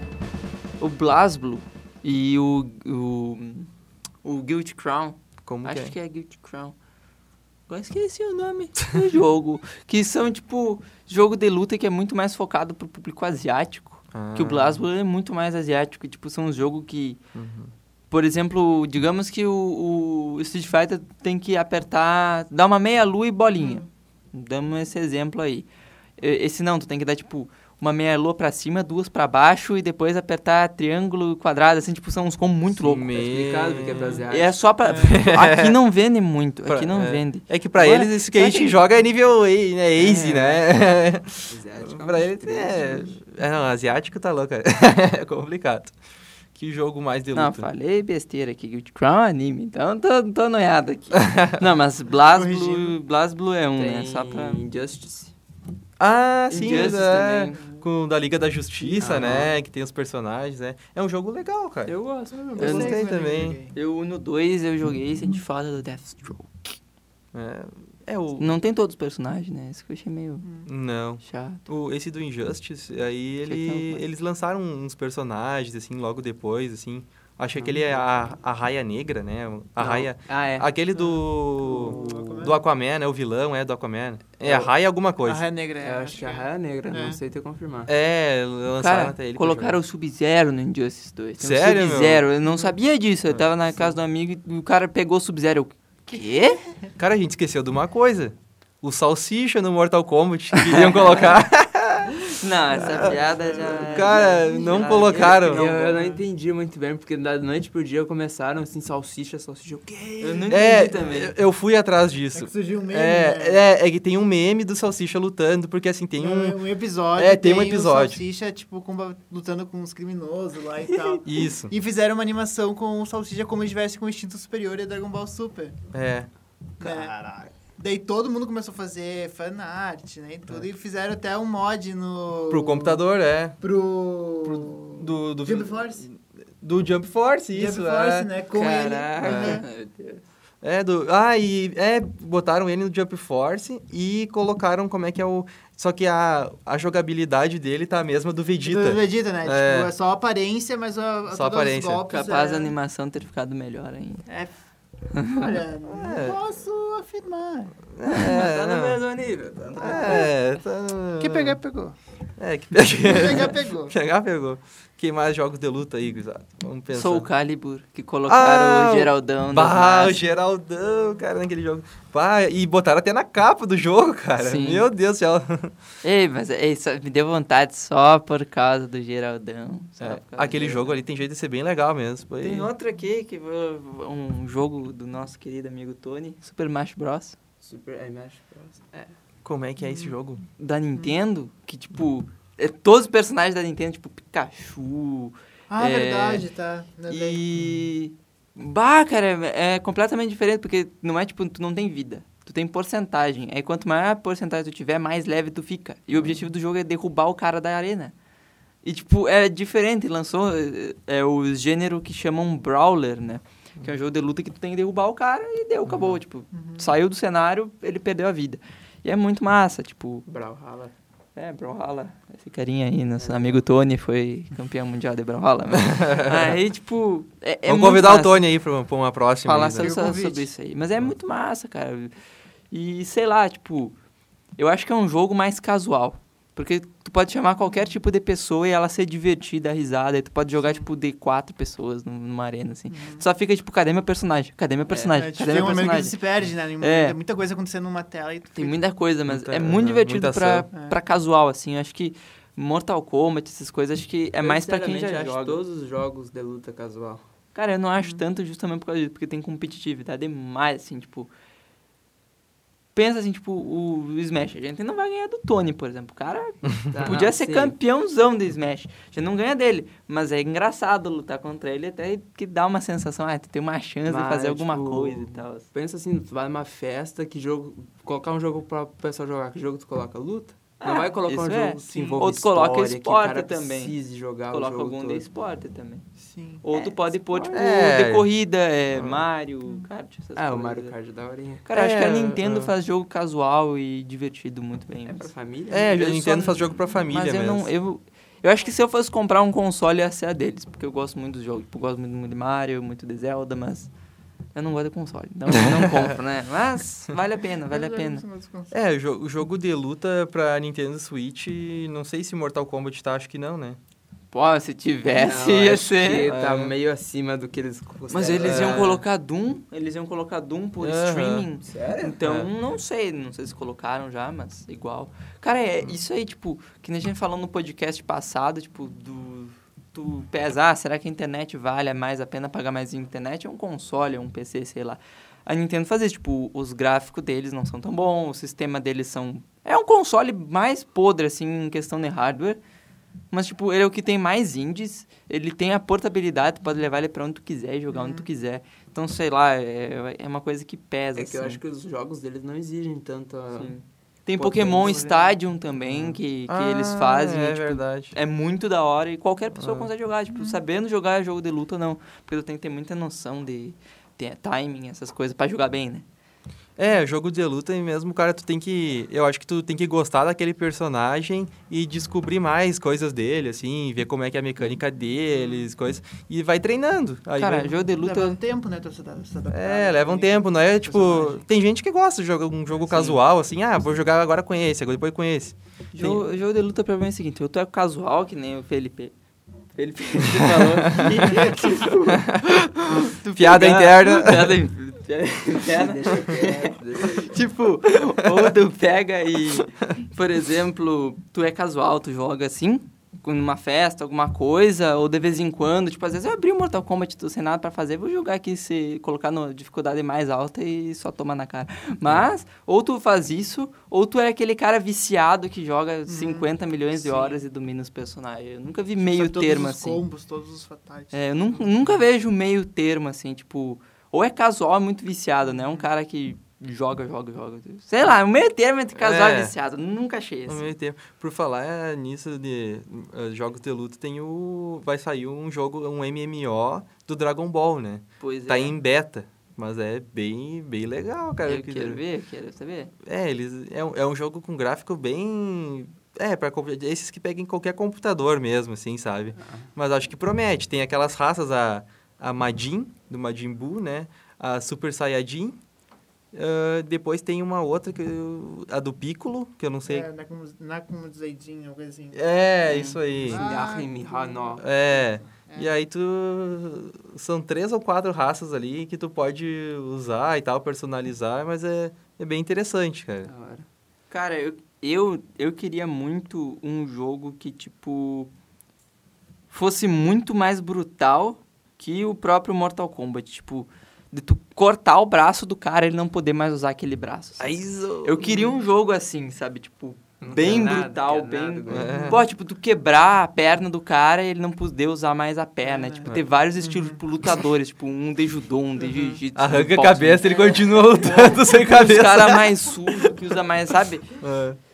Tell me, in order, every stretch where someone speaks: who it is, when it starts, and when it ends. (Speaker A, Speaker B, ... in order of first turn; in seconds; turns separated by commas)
Speaker A: 0.8-3.7, Speaker A: 4.2-6.8, Speaker B: 5.5-6.0, Speaker A: 7.7-17.2, Speaker B: 14.1-14.8, Speaker B: 17.3-17.7, Speaker A: 18.1-25.7, Speaker A: 26.2-33.2, Speaker B: 32.7-34.2, Speaker C: 33.1-34.6, Speaker A: 34.3-38.8, Speaker D: 34.9-35.1, Speaker B: 34.9-35.8, Speaker B: 36.7-46.0, Speaker A: 40.0-40.6, Speaker C: 41.5-43.1, Speaker B: 46.5-47.7, Speaker A: 47.3-54.6, Speaker B: 51.1-51.6, Speaker D: 52.3-53.0, Speaker C: 53.8-55.3, Speaker B: 56.0-61.9, Speaker A: 56.5-57.6, Speaker D: 57.6-57.8, Speaker C: 58.9-59.5, Speaker C: 61.9-62.6, Speaker D: 62.4-63.8, Speaker B: 62.6-63.6, Speaker A: 62.6-63.0, Speaker A: 63.7-66.8, Speaker B: 67.3-68.5, Speaker A: 68.4-70.5, Speaker D: 70.4-70.7, Speaker B: 70.7-85.4, Speaker A: 71.2-71.6, Speaker A: 73.5-74.0, Speaker C: 79.8-80.7, Speaker D: 81.0-82.6, Speaker C: 84.4-84.7, Speaker D: 85.2-87.2, Speaker C: 85.8-87.9, Speaker B: 87.9-89.8, Speaker A: 88.8-96.6, Speaker B: 91.4-92.2, Speaker D: 92.5-92.7, Speaker B: 97.0-105.6, Speaker A: 100.5-101.4, Speaker A: 102.3-106.0, Speaker D: 102.7-105.0, Speaker C: 104.7-110.9, Speaker D: 105.9-106.2, Speaker A: 110.2-111.3, Speaker B: 110.5-116.6, Speaker D: 112.3-113.6, Speaker D: 116.2-125.8, Speaker B: 117.1-118.2, Speaker B: 121.2-121.7, Speaker B: 125.9-126.3, Speaker D: 126.8-133.0, Speaker B: 132.5-133.6, Speaker D: 133.6-136.0, Speaker B: 134.4-138.3, Speaker D: 137.5-139.6, Speaker A: 138.5-140.2, Speaker B: 139.2-139.6, Speaker B: 140.6-149.9, Speaker D: 148.6-152.7, Speaker B: 151.3-152.0, Speaker A: 152.1-154.3, Speaker D: 154.3-154.6, Speaker A: 155.1-155.6, Speaker D: 155.3-157.8, Speaker B: 155.9-156.4, Speaker B: 157.9-159.0, Speaker C: 158.1-160.3, Speaker B: 159.8-161.6, Speaker D: 159.8-160.3, Speaker D: 161.2-161.9, Speaker B: 162.4-167.3, Speaker D: 163.0-163.9, Speaker A: 166.9-170.2, Speaker B: 168.3-175.7, Speaker A: 174.4-174.9, Speaker A: 176.0-181.0, Speaker B: 180.0-182.7, Speaker A: 182.4-187.4, Speaker C: 187.6-189.1, Speaker B: 189.4-190.4, Speaker A: 190.6-196.5, Speaker D: 195.7-197.4, Speaker A: 197.1-208.1, Speaker A: 208.8-220.3, Speaker B: 215.9-216.2, Speaker D: 216.5-216.9, Speaker C: 220.3-220.9, Speaker A: 221.4-228.4, Speaker C: 223.2-223.6, Speaker B: 225.8-226.6, Speaker B: 227.7-229.9, Speaker A: 229.4-232.1, Speaker D: 229.8-230.5, Speaker A: 232.7-233.9, Speaker A: 234.6-246.2, Speaker D: 242.9-243.2, Speaker C: 244.9-245.8, Speaker D: 245.1-248.8, Speaker A: 246.8-247.2, Speaker A: 248.6-255.6, Speaker B: 249.3-250.7, Speaker D: 250.7-251.0, Speaker C: 254.4-257.2, Speaker A: 257.6-261.3, Speaker A: 262.9-275.7, Speaker C: 266.9-267.8, Speaker C: 274.1-285.3, Speaker A: 280.8-284.0, Speaker A: 284.5-286.1, Speaker D: 286.2-286.6, Speaker A: 286.6-290.9, Speaker B: 287.3-288.3, Speaker B: 288.9-289.3, Speaker C: 290.4-291.6, Speaker A: 291.6-295.3, Speaker B: 291.7-292.7, Speaker C: 295.1-296.1, Speaker B: 295.7-297.7, Speaker A: 296.0-303.9, Speaker A: 304.5-308.2, Speaker B: 305.5-306.1, Speaker D: 307.7-308.7, Speaker B: 308.7-313.8, Speaker A: 314.3-316.3, Speaker C: 315.1-319.0, Speaker B: 316.3-316.7, Speaker A: 318.1-342.6, Speaker B: 318.4-319.0, Speaker B: 320.8-321.5, Speaker C: 321.6-322.2, Speaker B: 322.2-322.5, Speaker A: 343.3-351.6, Speaker D: 347.9-348.3, Speaker C: 351.2-353.7, Speaker A: 353.6-366.1, Speaker C: 354.4-355.1, Speaker D: 354.8-355.4, Speaker B: 356.5-358.1, Speaker B: 359.6-359.9, Speaker D: 360.3-360.6, Speaker B: 366.8-377.8, Speaker D: 375.4-375.7, Speaker A: 377.4-378.4, Speaker D: 377.9-381.4, Speaker B: 379.5-386.3, Speaker A: 382.9-383.2, Speaker A: 385.9-389.1, Speaker A: 389.8-420.0, Speaker B: 390.2-392.7, Speaker B: 393.4-394.6, Speaker C: 395.5-397.3, Speaker D: 416.1-417.4, Speaker D: 419.0-421.7, Speaker A: 421.1-430.7, Speaker D: 425.5-425.9, Speaker B: 429.0-429.5, Speaker B: 430.5-442.0, Speaker A: 438.2-438.8, Speaker A: 441.4-442.9, Speaker B: 443.0-455.6, Speaker B: 456.3-460.1, Speaker D: 459.9-462.2, Speaker B: 462.1-463.5, Speaker A: 462.6-463.0, Speaker D: 463.2-465.8, Speaker C: 463.2-464.6, Speaker B: 464.6-473.3, Speaker C: 473.3-473.6, Speaker A: 474.1-478.3, Speaker A: 479.5-504.2, Speaker B: 487.4-488.3, Speaker C: 490.2-492.0, Speaker B: 491.7-492.2, Speaker D: 491.9-492.2, Speaker D: 495.6-497.0, Speaker D: 498.8-499.2, Speaker B: 499.3-503.1, Speaker B: 504.2-504.6